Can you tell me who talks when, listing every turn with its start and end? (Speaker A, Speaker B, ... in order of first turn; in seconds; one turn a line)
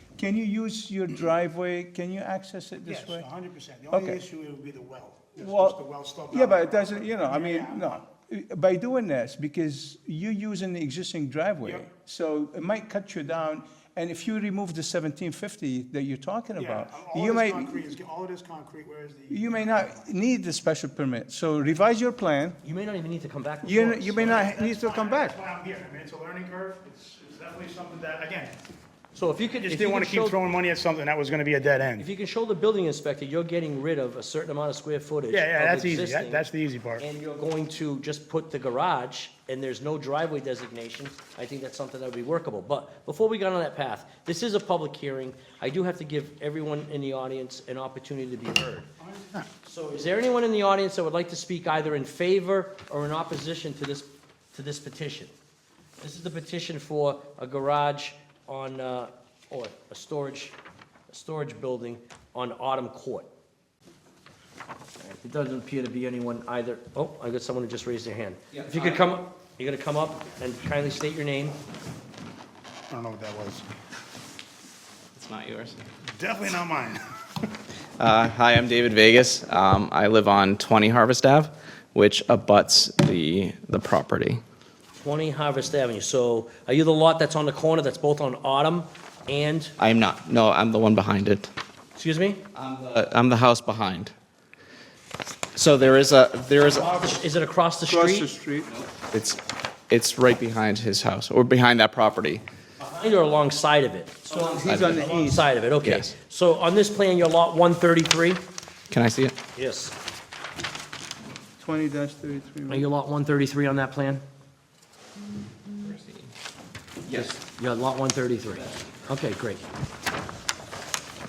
Speaker A: 0.1-3.2
Speaker B: 2.9-8.0
Speaker A: 3.9-4.2
Speaker A: 5.3-17.8
Speaker B: 16.6-20.1
Speaker A: 19.3-22.6
Speaker C: 22.6-24.5
Speaker A: 23.6-25.4
Speaker B: 24.3-28.6
Speaker C: 29.1-30.4
Speaker B: 29.6-32.1
Speaker C: 32.0-36.5
Speaker B: 35.3-37.0
Speaker C: 37.0-48.9
Speaker B: 49.0-49.5
Speaker C: 49.6-55.3
Speaker C: 56.0-60.5
Speaker C: 61.1-63.3
Speaker C: 65.0-71.6
Speaker D: 68.5-69.0
Speaker B: 72.9-73.7
Speaker D: 75.1-75.8
Speaker B: 76.2-77.5
Speaker D: 78.0-84.4
Speaker C: 85.0-89.7
Speaker D: 89.8-91.5
Speaker C: 92.0-92.4
Speaker D: 92.5-94.1
Speaker D: 95.5-97.1
Speaker C: 96.6-98.3
Speaker A: 97.9-98.7
Speaker D: 98.7-102.4
Speaker C: 102.8-108.4
Speaker A: 104.3-105.5
Speaker D: 104.6-105.0
Speaker D: 105.8-106.1
Speaker D: 108.9-109.3
Speaker C: 109.5-109.9
Speaker A: 111.6-112.8
Speaker C: 112.7-114.2
Speaker D: 115.8-116.3
Speaker C: 117.1-119.6